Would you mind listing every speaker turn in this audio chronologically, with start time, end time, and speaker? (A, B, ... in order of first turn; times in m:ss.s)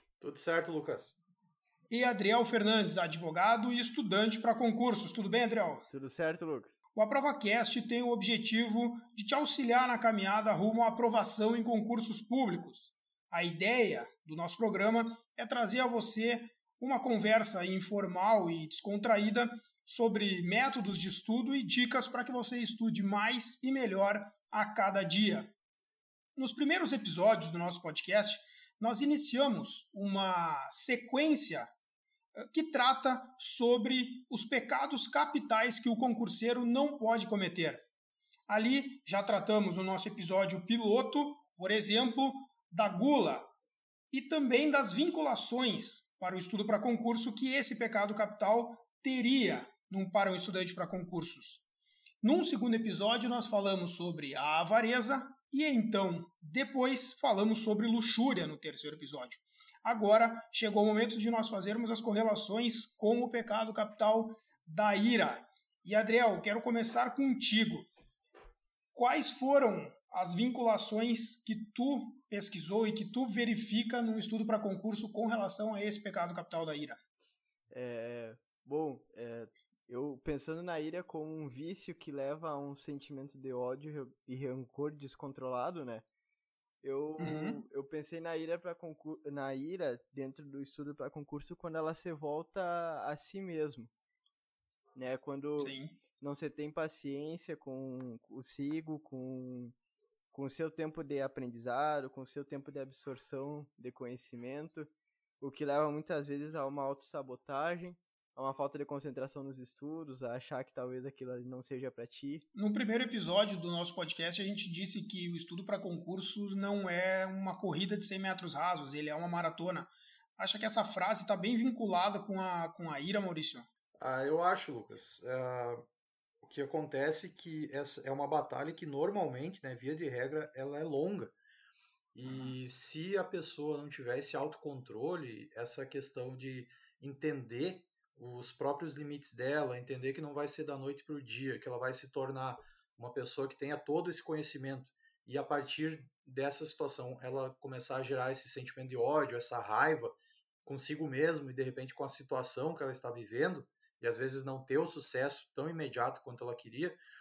0:00.2-0:01.1 A
0:01.9-0:05.9 B
0:05.9-0:06.7 C
0:07.0-0:25.5 B
0:26.4-0:31.7 B
0:32.4-0:37.8 B
0:38.5-0:43.5 B
0:44.1-0:51.6 B
0:52.2-1:07.9 B
1:08.9-1:17.0 B
1:17.7-1:26.0 C
1:26.8-1:33.9 C
1:27.2-1:27.6 B
1:34.9-1:39.7 C
1:35.6-1:35.9 B
1:40.3-1:52.4 C
1:52.6-2:03.7 B
2:04.0-2:05.8 A
2:06.4-2:11.3 A
2:12.2-2:37.0 A
2:12.3-2:12.6 B